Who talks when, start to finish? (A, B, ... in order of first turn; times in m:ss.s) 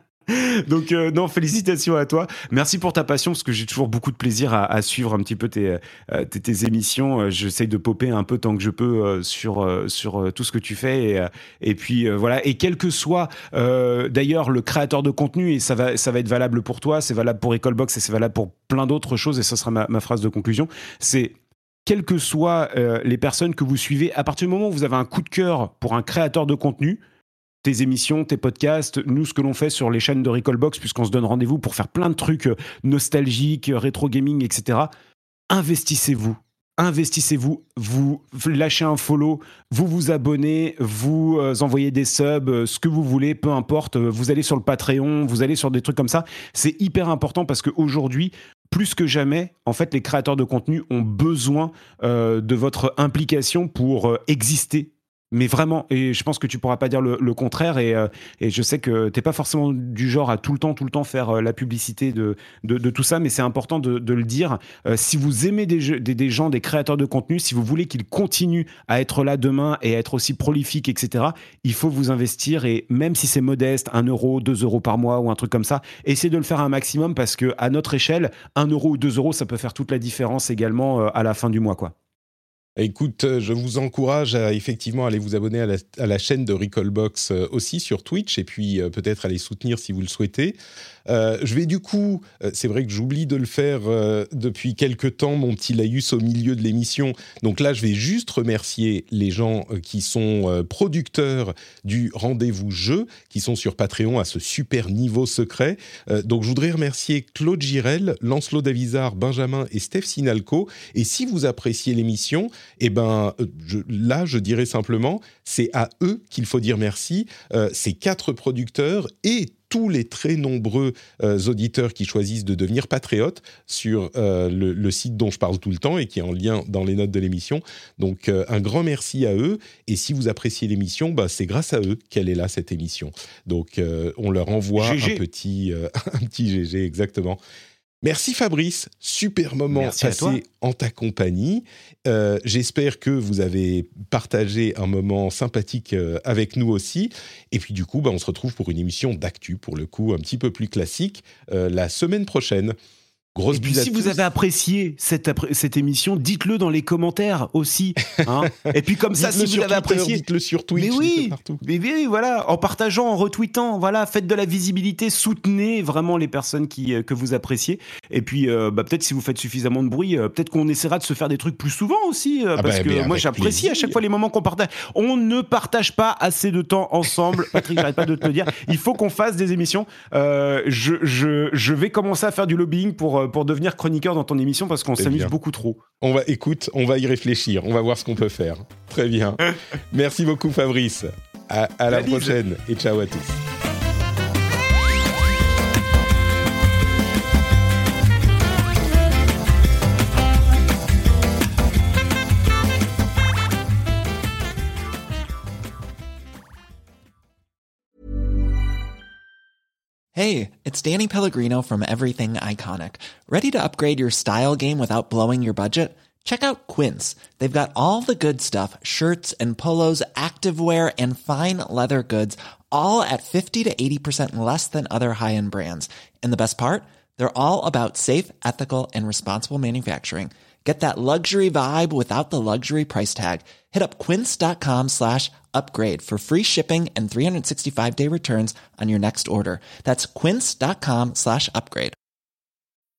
0:00.3-0:21.3 A
0:21.8-0:27.0 A
0:27.6-0:34.9 A
0:35.5-1:21.9 A
1:22.8-1:30.5 B
1:31.0-2:17.4 B
2:14.8-2:15.2 A
2:18.0-2:32.8 B
2:19.7-2:20.4 A
2:33.3-2:34.2 B
2:33.5-2:40.2 A
2:39.1-2:41.6 B
2:40.7-3:05.8 A
2:52.6-2:54.0 B
3:05.0-3:05.3 B
3:06.0-3:13.4 B
3:11.9-3:12.4 A
3:30.1-4:01.9 C